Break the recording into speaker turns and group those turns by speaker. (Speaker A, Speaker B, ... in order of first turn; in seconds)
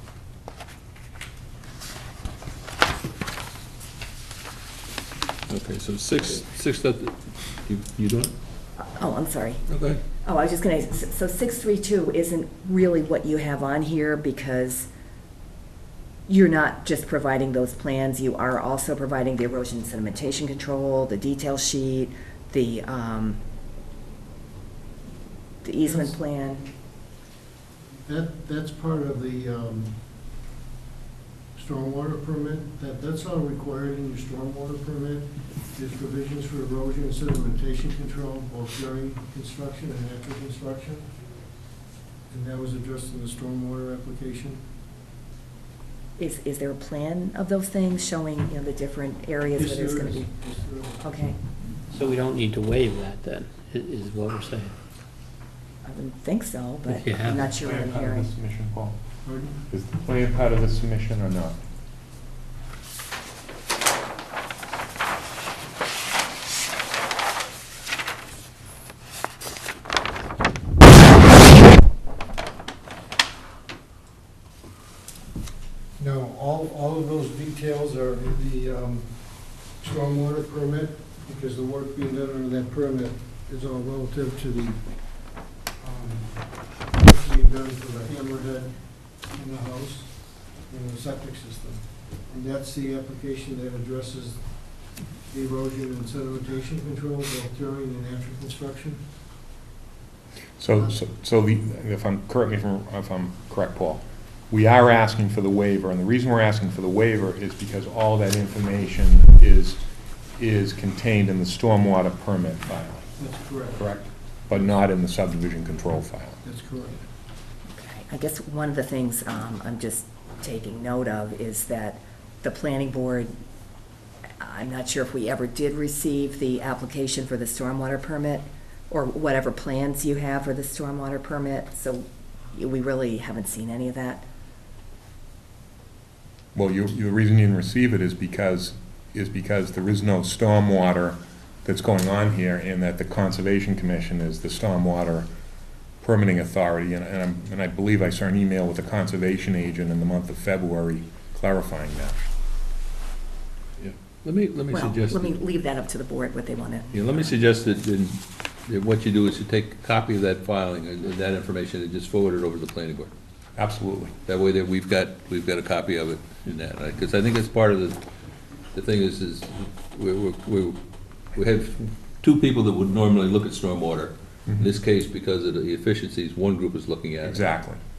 Speaker A: 5.5-8.3, 9.7-10.0, 153.8-155.3, 156.9-163.1, 164.3-168.0, 168.7-170.8, 171.3-177.5
Speaker B: 8.8-9.6, 10.2-14.9, 16.3-23.4, 25.6-26.6, 46.2-50.3, 51.0-51.4, 55.8-58.3, 117.7-123.3, 124.4-134.3, 154.7-157.6
Speaker C: 25.8-26.2, 27.9-30.0, 31.6-41.0, 42.3-44.6, 49.6-51.1, 59.2-59.6, 76.0-79.1, 79.8-84.8, 85.8-86.4, 86.9-88.7, 89.3-90.1, 90.7-94.4, 95.3-99.0, 113.2-113.9, 116.4-117.0
Speaker D: 51.9-54.7, 56.9-57.5
Speaker E: 57.5-59.0, 59.7-61.6, 100.6-109.8, 110.4-113.1, 113.8-116.4, 136.6-145.3, 146.0-152.2, 163.6-164.2, 177.2-177.8